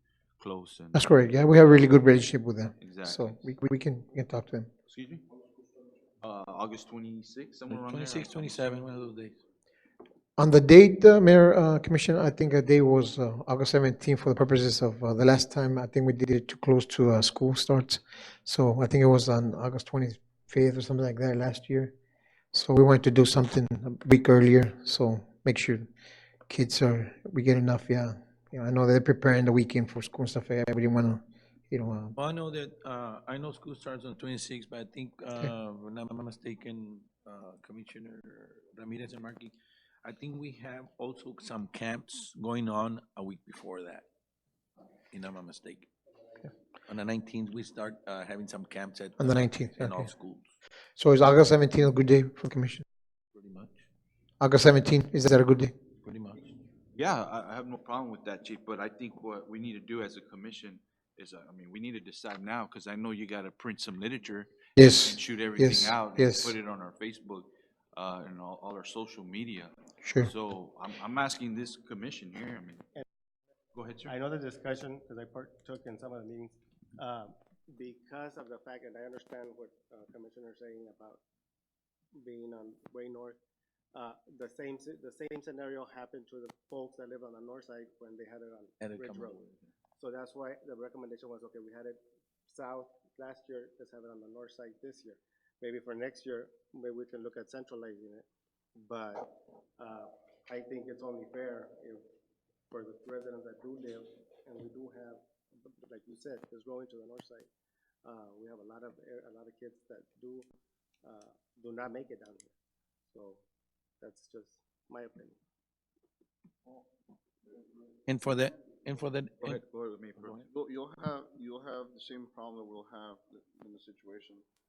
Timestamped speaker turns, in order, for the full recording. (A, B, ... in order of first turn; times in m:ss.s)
0:00.4-0:01.1 A
0:00.9-0:04.7 B
0:02.8-0:03.5 A
0:04.8-0:05.2 A
0:06.2-0:08.9 A
0:07.7-0:09.4 C
0:10.4-0:21.9 B
0:22.5-0:25.9 B
0:26.5-0:32.1 B
0:32.1-0:44.0 C
0:45.1-0:45.9 C
0:46.9-0:50.5 C
0:49.2-0:50.1 B
0:51.0-0:52.8 B
0:53.3-0:53.8 C
0:54.4-0:55.7 B
0:56.0-0:56.5 C
0:56.9-1:12.9 A
1:04.8-1:06.5 B
1:10.0-1:10.3 B
1:13.7-1:14.1 A
1:14.0-1:21.2 D
1:22.1-1:23.4 D
1:23.9-1:29.4 D
1:28.8-1:29.6 C
1:30.0-1:38.2 D
1:38.8-1:42.0 D
1:42.7-1:47.5 D
1:48.0-1:50.5 D
1:51.0-1:52.5 D
1:53.1-1:53.4 D
1:54.0-1:55.4 D
1:58.0-1:59.6 C
1:59.4-2:00.5 A
2:00.5-2:04.4 E